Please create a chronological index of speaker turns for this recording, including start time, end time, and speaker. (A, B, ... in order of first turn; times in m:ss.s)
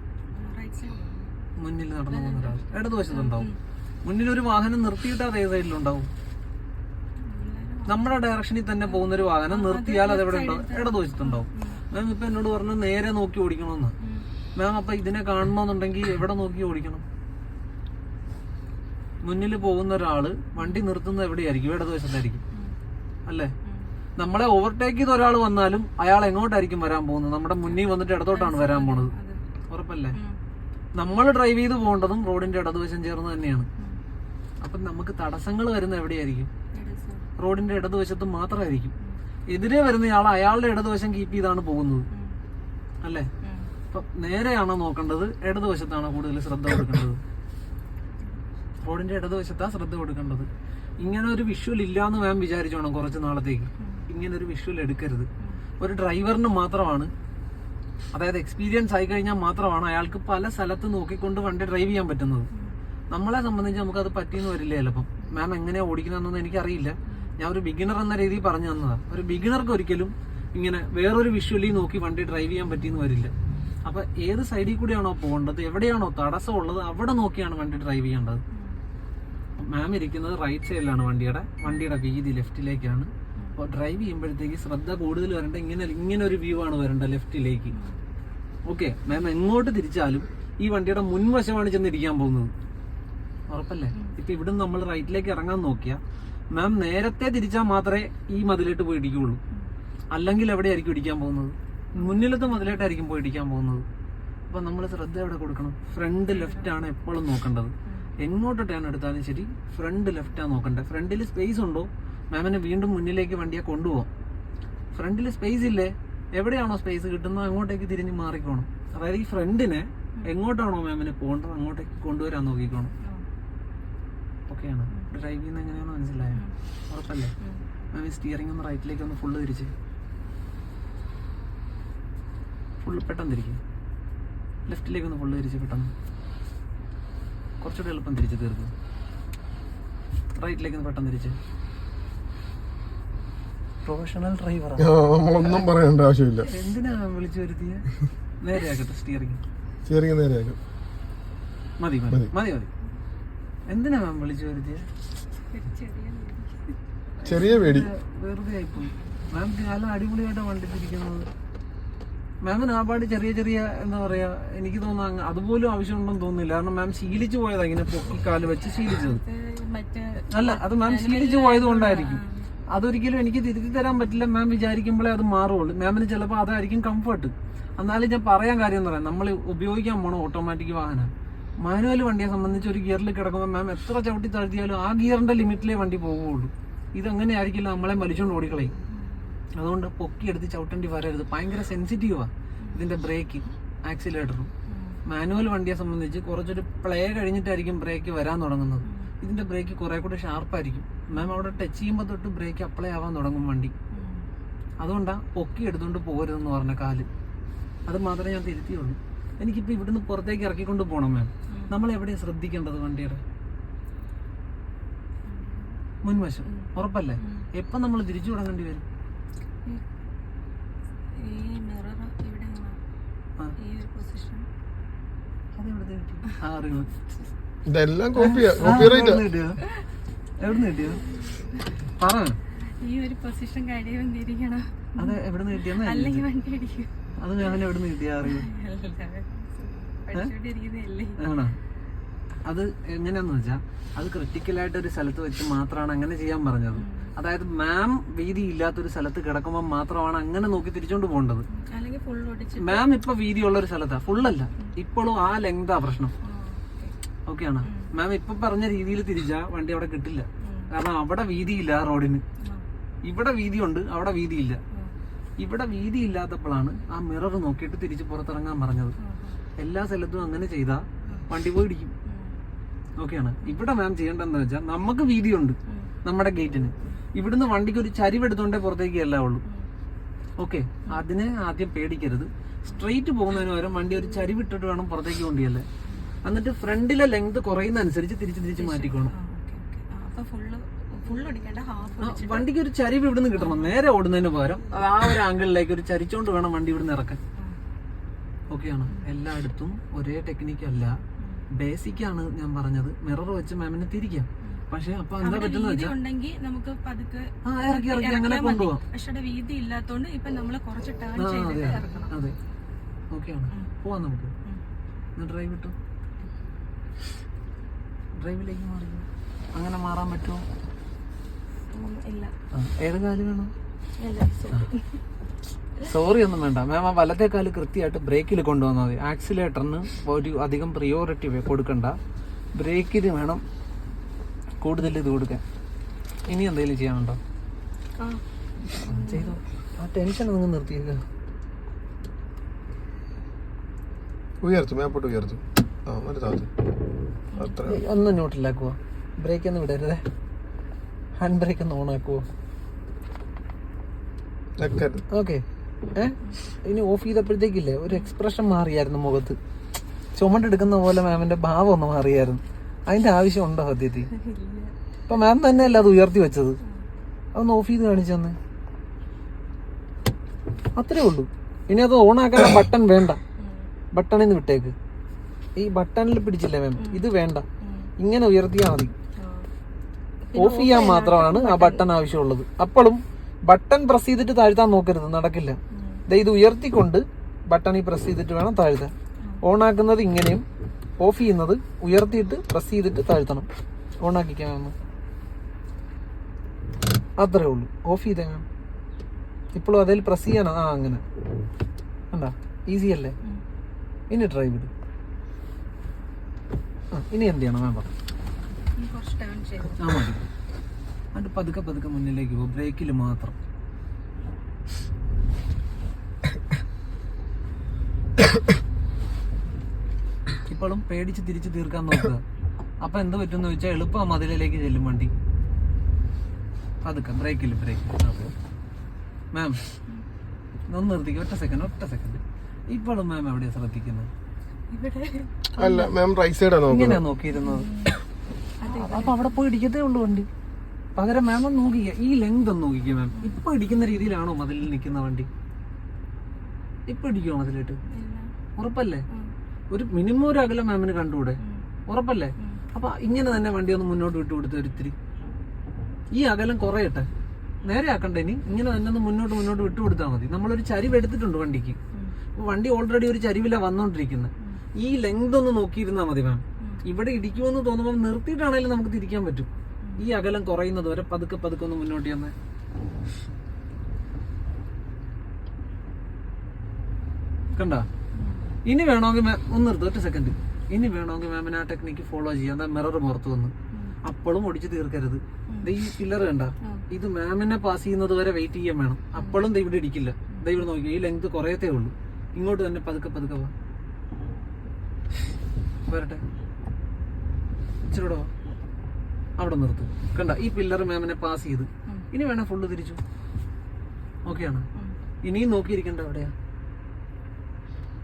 0:00.3-0:01.3 A
0:01.6-0:03.5 B
0:02.1-0:03.6 A
0:04.0-0:06.1 B
0:07.2-0:08.1 A
0:07.9-0:13.9 B
0:08.8-0:11.8 A
0:14.0-0:14.3 A
0:14.6-0:17.0 B
0:19.2-0:22.4 B
0:20.6-0:20.9 A
0:23.3-0:23.5 B
0:23.6-0:23.9 A
0:24.2-0:29.1 B
0:27.6-0:29.4 A
0:29.7-0:30.2 B
0:30.1-0:30.4 A
0:31.0-0:33.7 B
0:34.6-0:36.5 B
0:36.7-0:37.2 A
0:37.4-0:38.9 B
0:39.5-0:42.0 B
0:42.1-0:42.4 A
0:43.0-0:43.3 B
0:43.4-0:43.7 A
0:43.9-0:47.2 B
0:48.8-0:50.5 B
0:51.0-0:55.3 B
0:53.8-0:54.0 A
0:55.8-0:57.1 B
0:58.1-1:02.5 B
1:03.1-1:13.3 B
1:13.8-1:18.4 B
1:18.5-1:18.8 A
1:19.6-1:27.8 B
1:27.7-1:28.0 A
1:28.7-1:32.5 B
1:33.5-1:36.0 B
1:36.5-1:39.4 B
1:40.1-1:43.8 B
1:42.0-1:42.9 A
1:44.5-1:54.1 B
1:46.3-1:46.7 A
1:54.9-2:02.9 B
2:04.5-2:07.3 B
2:07.9-2:09.7 B
2:12.8-2:13.6 B
2:14.7-2:15.9 B
2:17.6-2:18.7 B
2:20.4-2:21.4 B
2:23.8-2:25.7 B
2:24.8-2:26.5 C
2:26.5-2:27.9 B
2:28.4-2:29.4 B
2:29.8-2:30.6 C
2:31.8-2:32.7 B
2:33.7-2:34.9 B
2:35.5-2:36.8 A
2:37.2-2:41.3 B
2:37.2-2:37.9 C
2:42.4-2:49.2 B
2:48.8-2:52.5 A
2:50.3-3:08.7 B
3:08.9-3:09.2 A
3:09.6-3:14.5 B
3:14.7-3:15.0 A
3:15.1-3:23.7 B
3:18.8-3:19.1 A
3:21.1-3:21.5 A
3:23.9-3:24.3 A
3:24.8-3:27.1 B
3:27.9-3:33.2 B
3:31.5-3:31.8 A
3:35.3-3:35.8 A
3:36.0-3:38.8 B
3:36.4-3:37.5 A
3:41.1-3:42.8 A
3:43.6-3:44.5 A
3:45.6-3:46.9 B
3:47.7-3:49.2 C
3:48.2-3:49.6 B
3:50.4-3:51.0 B
3:52.0-3:52.4 B
3:52.8-3:57.6 A
3:55.0-3:56.3 B
3:57.2-3:58.5 B
3:58.2-4:01.2 A
4:01.2-4:01.6 B
4:02.4-4:11.4 B
4:06.8-4:07.1 A
4:11.5-4:12.9 A
4:12.6-4:16.1 B
4:16.2-4:16.9 A
4:17.3-4:22.2 B
4:17.6-4:17.9 A
4:20.4-4:20.7 A
4:23.0-4:24.6 B
4:25.4-4:28.9 B
4:29.0-4:29.4 A
4:29.6-4:31.9 B
4:32.1-4:32.4 A
4:33.0-4:39.4 B
4:35.7-4:35.9 A
4:40.4-4:45.7 B
4:46.2-4:49.1 B
4:48.6-4:52.5 A
4:52.0-4:57.2 B
4:53.3-4:53.7 A
4:58.5-5:01.0 B
5:01.5-5:06.0 B
5:05.2-5:12.3 A
5:07.4-5:08.8 B
5:11.2-5:12.4 B
5:13.1-5:14.3 B
5:15.2-5:15.7 B
5:18.2-5:20.4 B
5:21.7-5:22.3 A
5:22.5-5:23.5 B
5:24.0-5:25.0 A
5:25.8-5:32.0 B
5:32.6-5:33.4 B
5:34.6-5:35.4 B
5:36.3-5:37.2 B
5:38.7-5:41.0 B
5:38.8-5:39.4 A
5:44.4-5:46.5 C
5:47.3-5:47.7 A
5:47.4-5:47.8 C
5:47.6-5:50.0 B
5:51.2-5:52.2 B
5:54.6-5:55.0 C
5:55.1-5:59.4 B
5:55.8-5:56.4 A
6:00.2-6:04.1 B
6:04.1-6:05.9 A
6:05.1-6:06.6 B
6:07.4-6:08.4 B
6:10.8-6:13.2 B
6:13.4-6:13.7 A
6:13.9-6:14.8 B
6:15.6-6:17.4 B
6:16.8-6:17.1 A
6:17.6-6:17.9 A
6:18.0-6:18.9 B
6:19.2-6:19.5 A
6:20.3-6:21.9 A
6:20.3-6:25.6 B
6:25.7-6:26.0 A
6:26.1-6:30.4 B
6:31.0-6:33.5 B
6:34.0-6:34.8 B
6:37.2-6:38.4 B
6:39.6-6:41.0 B
6:42.1-6:43.2 B
6:44.1-6:44.7 B
6:46.9-6:47.9 B
6:48.8-6:49.8 A
6:49.8-6:50.2 B
6:51.1-6:53.4 B
7:00.5-7:02.2 B
7:02.8-7:05.1 B
7:06.8-7:08.3 B
7:09.3-7:09.6 B
7:10.7-7:14.1 B
7:14.7-7:15.7 A
7:15.6-7:17.0 C
7:15.6-7:15.9 B
7:16.6-7:17.7 B
7:17.3-7:18.0 A
7:18.6-7:19.4 A
7:18.6-7:20.3 B
7:21.0-7:25.3 B
7:23.1-7:23.4 A
7:26.9-7:27.8 B
7:27.9-7:28.3 A
7:28.6-7:29.0 B
7:29.7-7:35.0 B
7:36.1-7:37.1 B
7:37.7-7:41.8 B
7:42.4-7:52.3 B
7:57.6-7:57.9 B
7:58.1-7:58.5 A
7:58.6-8:13.5 B
8:09.2-8:09.5 A
8:10.3-8:10.6 A
8:15.9-8:16.2 B
8:17.8-8:18.3 B
8:19.4-8:23.0 B
8:24.3-8:24.7 B
8:25.2-8:26.3 B